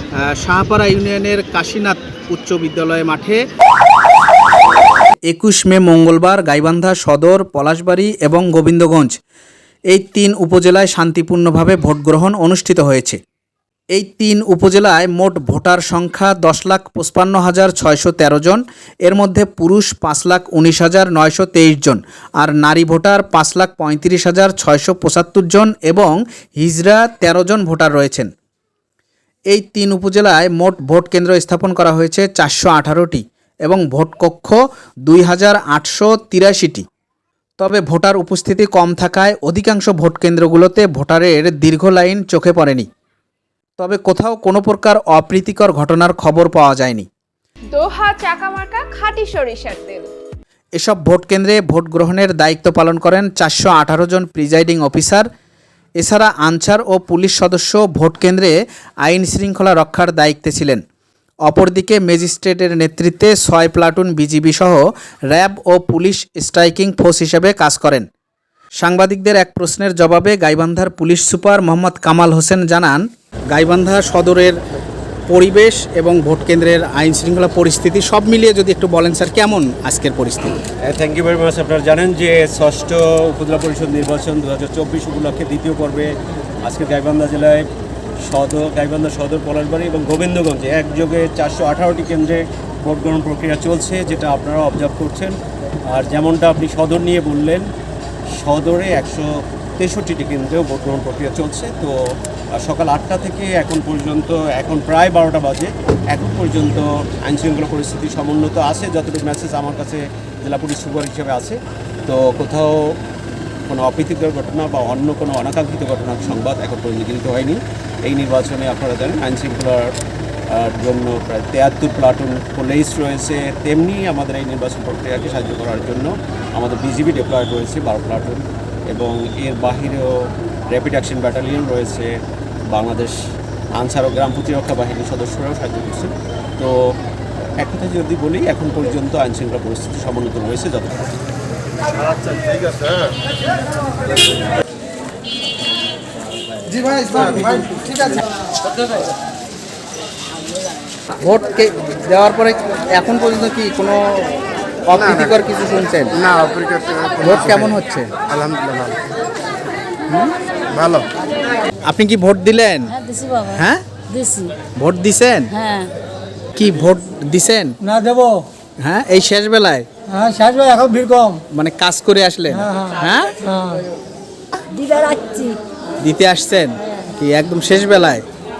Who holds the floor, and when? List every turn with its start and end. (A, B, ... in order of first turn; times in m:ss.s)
0:00.2-0:03.4 A
0:05.3-0:09.1 A
0:09.9-0:13.2 A
0:13.9-0:28.3 A
0:29.5-0:36.8 A
0:37.6-0:42.9 A
0:43.8-0:47.1 A
0:47.7-0:50.1 B
0:50.8-0:55.3 A
0:56.0-1:00.8 A
1:01.4-1:08.1 A
1:08.8-1:14.6 A
1:15.3-1:20.6 A
1:20.8-1:27.7 C
1:28.2-1:35.4 C
1:35.9-1:37.7 C
1:38.4-1:42.0 C
1:42.6-1:53.0 C
1:53.7-1:59.9 C
2:00.5-2:12.1 C
2:12.7-2:13.2 C
2:13.8-2:16.8 C
2:17.6-2:21.1 C
2:27.0-2:28.2 A
2:31.2-2:36.3 A
2:37.2-2:38.1 A
2:40.1-2:40.3 A
2:41.8-2:43.0 A
2:42.9-2:43.6 D
2:43.5-2:43.8 A
2:44.1-2:44.5 D
2:44.8-2:45.5 A
2:45.6-2:45.9 D
2:46.6-2:47.8 A
2:47.8-2:48.4 E
2:48.8-2:49.8 A
2:50.1-2:51.4 E
2:51.5-2:53.3 A
2:54.7-2:55.6 D
2:56.0-2:58.2 A